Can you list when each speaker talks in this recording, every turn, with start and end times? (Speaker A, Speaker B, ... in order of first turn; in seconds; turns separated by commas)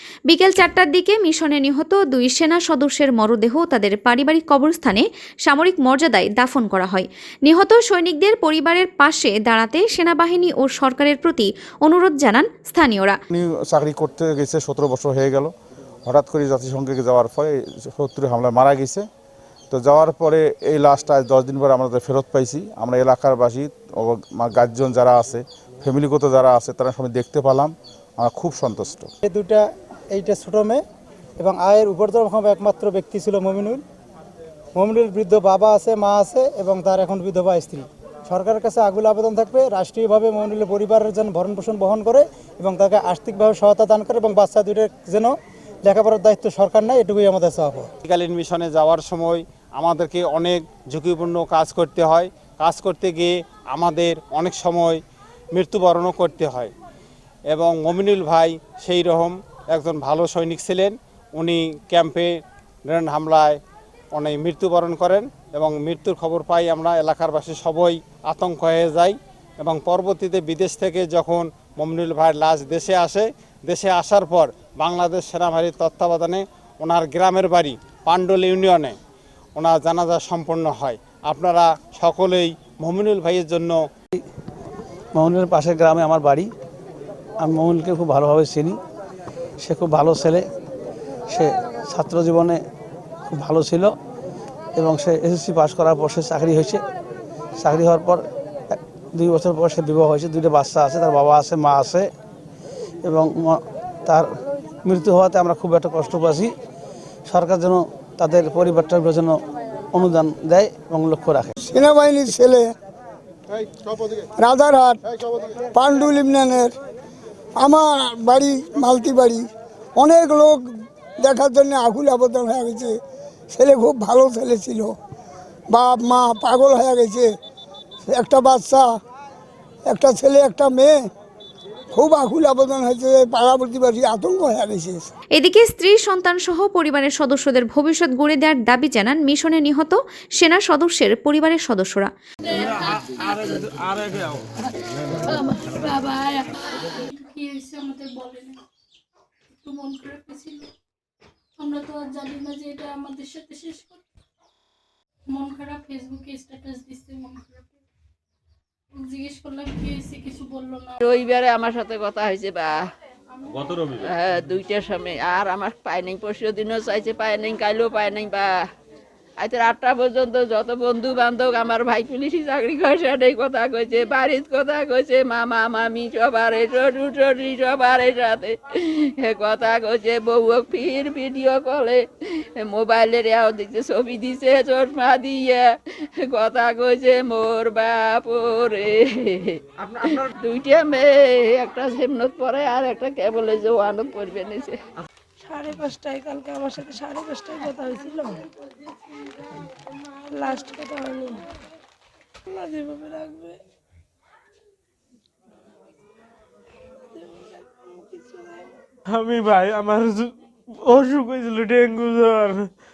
Speaker A: 0.3-13.2, Speaker B: 13.3-15.5, Speaker B: 16.0-19.1, Speaker B: 19.7-29.1, Speaker C: 29.2-30.8, Speaker C: 31.4-33.8, Speaker C: 34.8-47.9, Speaker D: 48.0-55.0, Speaker D: 55.5-56.7, Speaker D: 57.5-63.6, Speaker D: 64.1-79.0, Speaker D: 79.5-83.8, Speaker E: 85.1-86.5, Speaker E: 87.4-88.8, Speaker E: 89.6-90.5, Speaker E: 91.3-92.6, Speaker E: 93.3-93.9, Speaker E: 94.8-96.8, Speaker E: 97.6-102.1, Speaker E: 103.0-106.5, Speaker E: 107.3-111.5, Speaker F: 111.6-112.7, Speaker F: 114.4-115.0, Speaker F: 115.7-116.7, Speaker F: 117.6-119.4, Speaker F: 120.0-120.6, Speaker F: 121.2-122.9, Speaker F: 123.5-124.9, Speaker F: 125.7-127.3, Speaker F: 128.1-128.8, Speaker F: 129.9-130.9, Speaker F: 131.9-135.1, Speaker A: 135.3-142.1, Speaker G: 142.5-143.5, Speaker H: 145.3-146.3, Speaker G: 146.9-148.6, Speaker G: 149.6-150.7, Speaker G: 151.6-154.0, Speaker G: 155.3-157.8, Speaker G: 159.0-161.0, Speaker I: 161.0-162.8, Speaker I: 164.0-168.5, Speaker I: 169.4-182.0, Speaker I: 182.6-185.7, Speaker I: 186.2-194.8, Speaker H: 195.4-198.4, Speaker H: 200.3-201.4, Speaker H: 202.5-203.6, Speaker H: 207.1-208.7, Speaker J: 209.1-212.7